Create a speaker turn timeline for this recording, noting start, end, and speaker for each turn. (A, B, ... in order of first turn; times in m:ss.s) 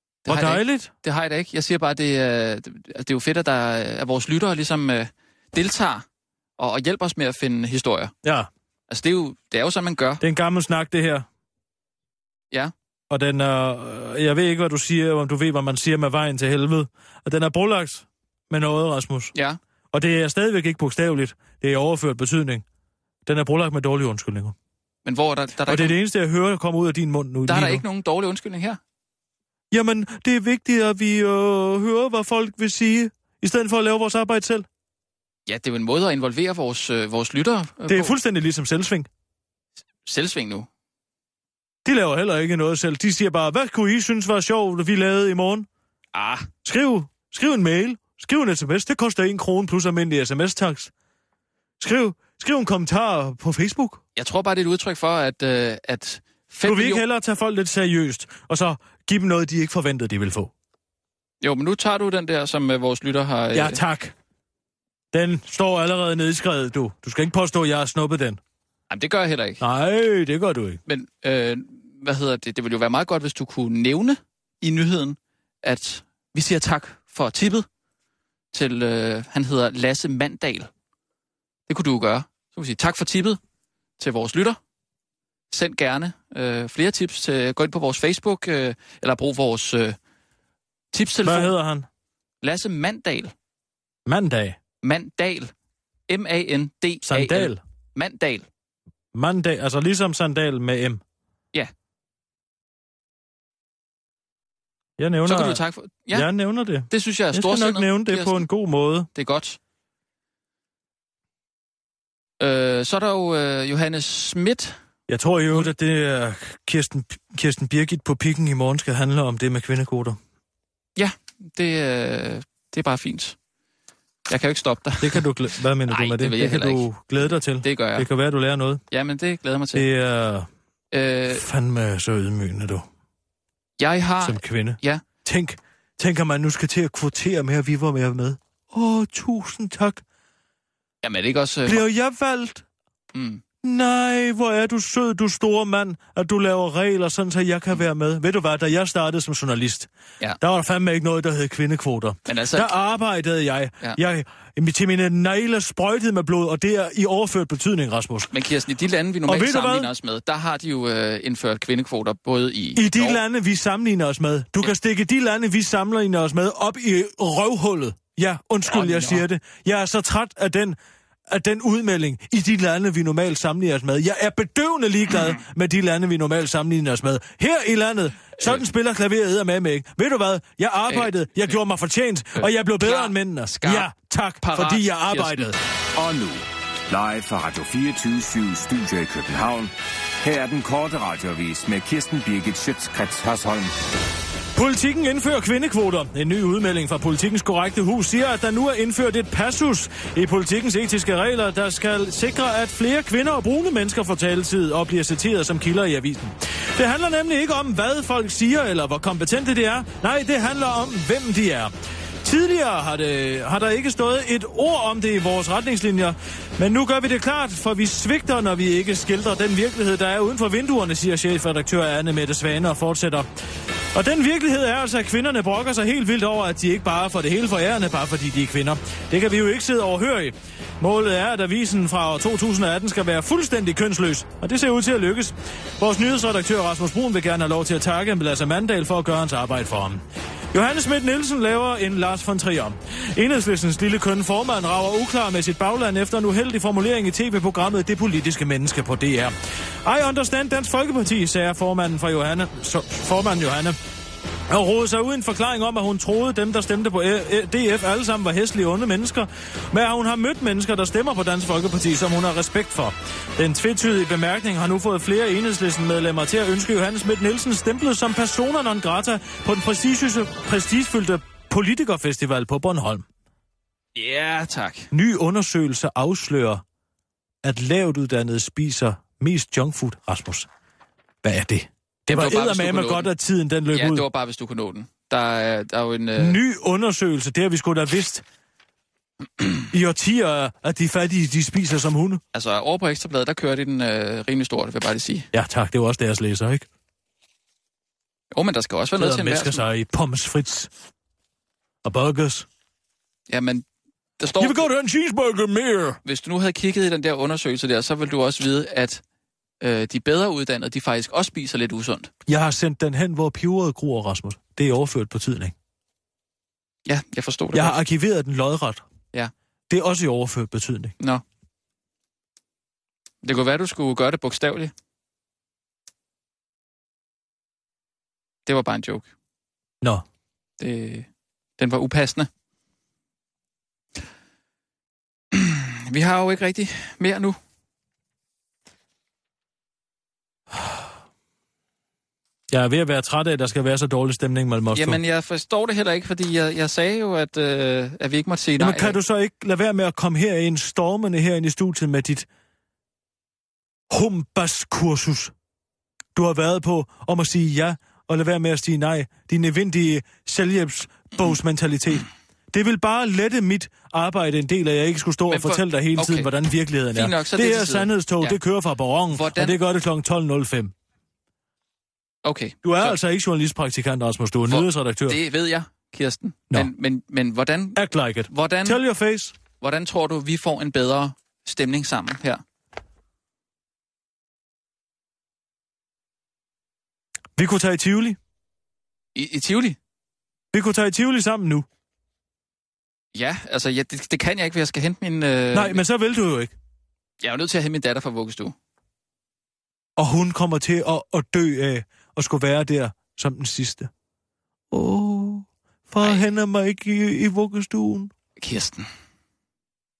0:00.2-0:06.0 A
0:00.3-0:00.9 B
0:06.6-0:08.1 A
0:08.2-0:08.5 B
0:08.9-0:10.2 A
0:10.2-0:11.2 B
0:13.1-0:19.3 B
0:19.3-0:19.6 A
0:19.9-0:22.6 B
0:23.2-0:24.5 B
0:25.0-0:26.0 A
0:25.7-0:27.8 B
0:27.5-0:28.8 A
0:29.7-0:34.7 B
0:35.5-0:38.2 A
0:37.9-0:39.1 B
0:40.0-0:40.7 A
0:41.8-0:45.7 B
0:46.1-0:46.5 A
0:46.6-0:50.9 B
0:51.8-0:54.0 B
0:54.2-0:57.0 A
0:56.6-1:00.5 B
1:01.4-1:03.8 A
1:03.5-1:04.1 B
1:05.1-1:08.4 B
1:08.9-1:09.6 A
1:09.6-1:10.8 B
1:10.9-1:17.6 A
1:18.5-1:20.7 A
1:21.7-1:23.4 A
1:24.0-1:24.6 A
1:25.5-1:30.0 A
1:30.9-1:31.5 A
1:31.2-1:31.9 B
1:32.4-1:33.3 A
1:34.0-1:34.6 B
1:34.8-1:35.5 A
1:36.1-1:38.5 A
1:37.0-1:37.6 B
1:39.1-1:41.0 B
1:45.0-1:49.1 B
1:45.2-1:46.3 A
1:46.9-1:48.4 A
1:49.1-1:49.6 A
1:52.4-1:54.8 A
1:55.1-2:00.2 B
2:01.0-2:03.4 A
2:04.3-2:05.2 A
2:05.0-2:08.8 B
2:05.9-2:08.1 A
2:08.9-2:09.9 A
2:09.7-2:10.5 B
2:10.9-2:11.4 A
2:11.3-2:12.8 B
2:13.8-2:15.0 A
2:14.2-2:20.0 B
2:21.0-2:21.8 A
2:21.7-2:22.6 B
2:23.1-2:23.4 A
2:23.6-2:29.9 B
2:30.4-2:38.3 B
2:32.3-2:32.7 A
2:38.3-2:43.2 A
2:39.3-2:39.9 B
2:42.8-2:50.8 B
2:48.6-2:49.2 A
2:51.3-3:05.6 B
2:58.4-2:58.6 A
3:00.9-3:01.5 A
3:02.3-3:03.9 A
3:04.4-3:05.5 A
3:05.9-3:13.7 C
3:14.5-3:31.7 B
3:32.2-3:43.3 B
3:43.9-4:09.3 B
4:09.8-4:13.8 B
4:14.5-4:33.1 B
4:33.9-4:34.9 A
4:34.9-4:36.6 B
4:37.4-4:40.5 B
4:41.2-4:44.0 B
4:42.1-4:43.1 A
4:43.7-4:46.4 A
4:46.2-4:48.2 B
4:49.4-4:49.6 A
4:49.7-4:52.2 B
4:52.3-4:55.3 A
4:55.3-4:56.7 B
4:58.3-4:59.6 A
4:59.0-5:00.7 B
5:01.8-5:02.5 B
5:03.3-5:03.6 A
5:04.2-5:04.6 A
5:04.4-5:06.0 B
5:06.0-5:09.0 A
5:09.6-5:12.1 A
5:12.2-5:15.5 B
5:16.8-5:17.8 A
5:17.5-5:18.8 B
5:19.7-5:20.9 B
5:23.2-5:24.7 A
5:28.4-5:29.1 A
5:30.6-5:32.3 A
5:35.3-5:37.4 A
5:42.5-5:45.0 B
5:44.7-5:49.0 A
5:48.6-5:52.3 B
5:53.9-5:55.3 B
5:56.2-6:10.7 B
6:05.3-6:06.3 A
6:06.9-6:08.4 A
6:09.1-6:09.6 A
6:12.2-6:13.0 A
6:12.6-6:15.2 B
6:14.5-6:18.8 A
6:17.8-6:19.3 B
6:19.6-6:22.4 A
6:27.4-6:28.2 B
6:29.1-6:29.8 A
6:30.5-6:31.6 B
6:33.1-6:35.8 A
6:35.5-6:36.5 B
6:37.2-6:38.5 A
6:40.0-6:43.9 B
6:44.7-6:48.1 B
6:46.0-6:46.2 A
6:48.4-6:48.9 A